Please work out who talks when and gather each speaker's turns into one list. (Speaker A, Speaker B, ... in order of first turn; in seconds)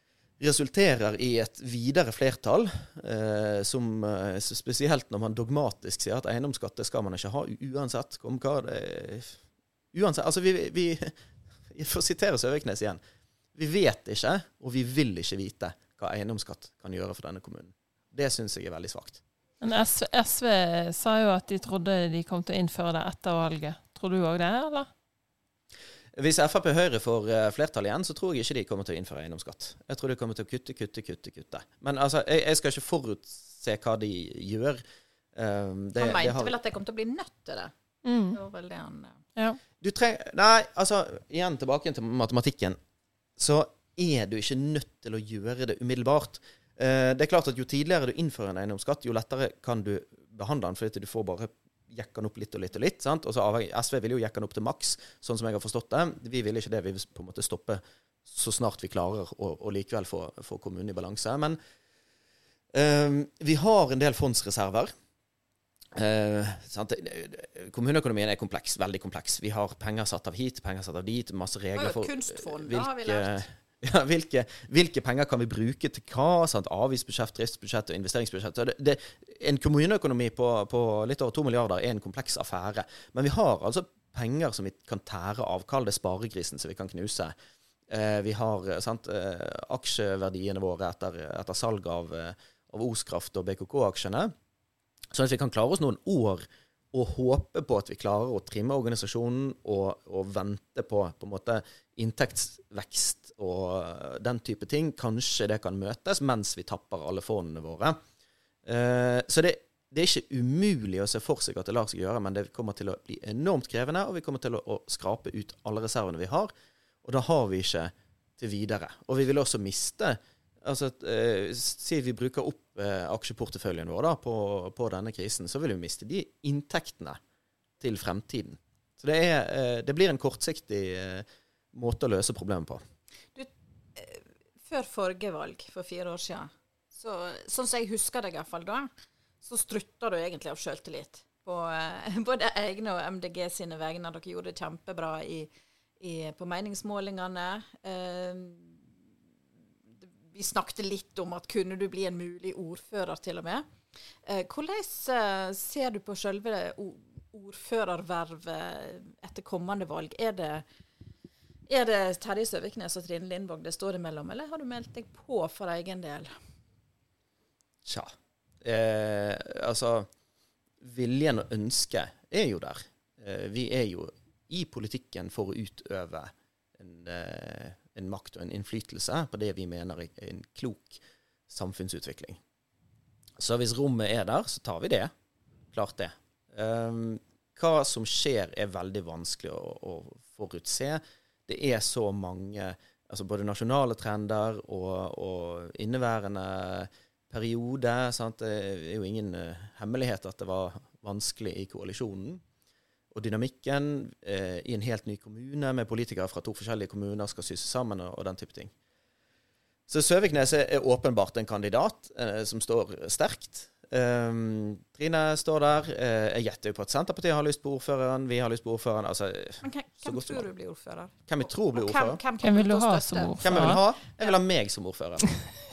Speaker A: 0.4-9.4, 9.9-11.1, 11.7-13.0, 13.5-19.2, 26.1-34.8, 35.3-36.6, 39.8-42.8, 43.4-61.6, 62.7-64.9, 65.9-87.3, 87.9-94.3, 95.1-108.0, 108.6-116.5, 117.0-127.2, 127.8-132.8, 167.8-170.1, 170.8-182.4, 183.4-185.1, 185.7-202.4, 203.1-208.7, 209.9-220.5, 221.3-222.2, 223.4-225.3
Speaker B: 19.6-24.9, 38.0-38.4, 222.4-223.8
Speaker C: 36.0-37.7, 38.3-39.2, 71.7-73.4, 133.3-138.9, 139.4-148.8, 150.3-153.7, 154.2-160.6, 161.7-166.3, 219.6-223.8